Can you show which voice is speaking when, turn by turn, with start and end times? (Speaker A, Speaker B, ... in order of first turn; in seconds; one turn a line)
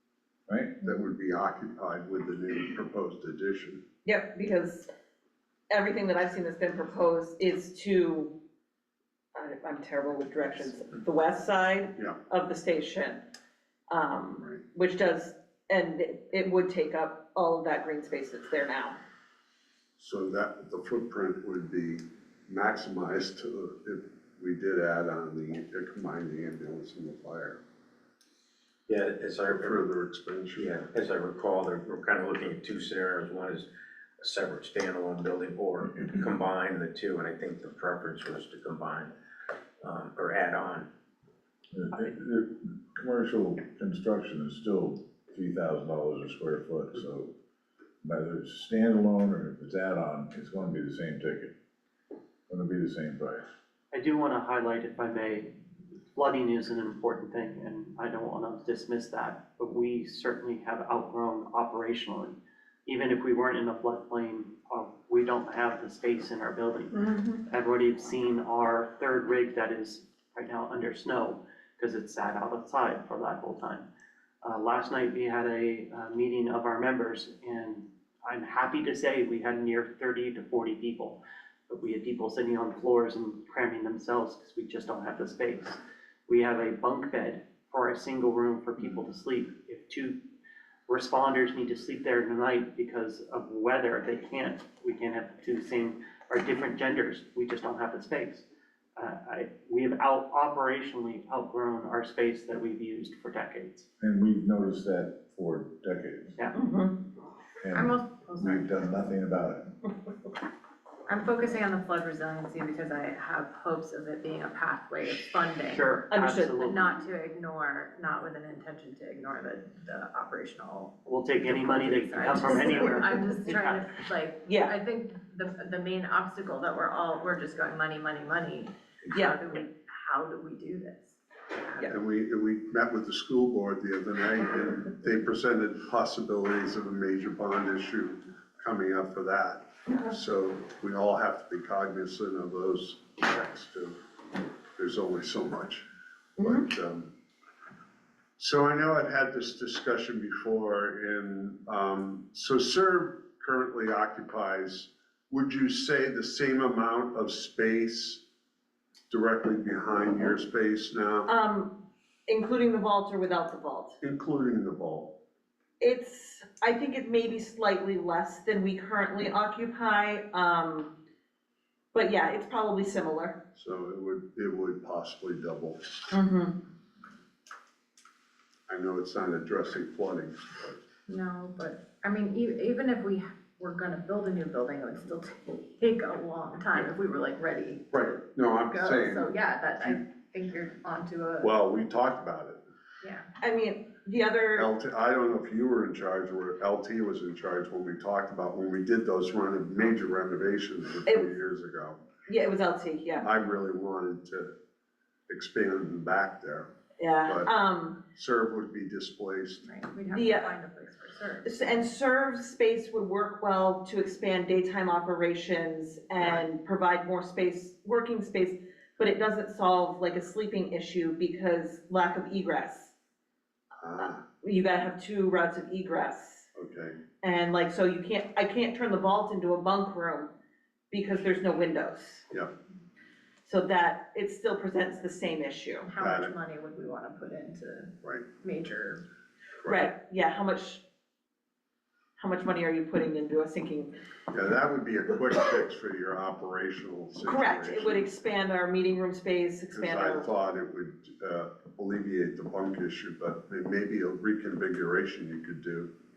Speaker A: 0.5-0.8
Speaker B: 0.8-3.8
Speaker C: 4.0-4.9
Speaker C: 5.7-8.4
Speaker C: 9.3-13.2
Speaker C: 13.9-19.0
Speaker B: 20.0-27.6
Speaker D: 28.9-29.8
Speaker B: 29.5-30.8
Speaker D: 30.6-33.7
Speaker D: 34.2-39.1
Speaker D: 39.8-40.9
Speaker A: 41.7-47.3
Speaker A: 48.0-51.5
Speaker A: 52.5-53.4
Speaker E: 53.9-55.5
Speaker E: 56.1-73.9
Speaker E: 74.4-90.2
Speaker E: 90.9-98.5
Speaker E: 99.0-103.9
Speaker A: 104.0-106.4
Speaker C: 106.5-107.0
Speaker A: 107.6-109.7
Speaker F: 107.7-108.7
Speaker F: 111.1-131.9
Speaker E: 115.7-116.9
Speaker C: 116.1-116.6
Speaker E: 121.1-124.0
Speaker C: 124.5-124.8
Speaker C: 129.1-129.4
Speaker B: 131.8-144.0
Speaker B: 144.8-145.9
Speaker C: 146.4-146.7
Speaker B: 146.4-147.1
Speaker B: 148.4-158.2
Speaker B: 159.1-161.3
Speaker C: 161.3-164.0
Speaker B: 164.0-165.2
Speaker C: 165.8-171.0
Speaker C: 171.9-173.4
Speaker B: 173.6-176.1
Speaker C: 176.1-176.6
Speaker B: 178.7-180.8
Speaker F: 181.1-191.5
Speaker B: 187.9-190.0
Speaker B: 191.4-192.6
Speaker F: 193.0-193.3
Speaker C: 193.4-194.7
Speaker B: 194.6-202.0
Speaker C: 202.3-203.3
Speaker B: 203.2-204.5
Speaker B: 205.3-206.7
Speaker C: 207.0-208.0
Speaker B: 208.1-209.7
Speaker F: 209.6-211.7
Speaker C: 210.1-210.6
Speaker C: 211.4-222.9
Speaker B: 223.8-224.2
Speaker C: 224.0-226.5
Speaker B: 226.6-227.0
Speaker C: 227.2-230.3
Speaker C: 230.9-232.3
Speaker C: 233.4-235.9
Speaker F: 235.8-239.0
Speaker B: 236.0-236.3
Speaker B: 239.6-239.8
Speaker C: 239.7-240.8
Speaker C: 242.2-243.9
Speaker B: 244.3-248.1
Speaker C: 247.2-250.3
Speaker B: 249.7-255.9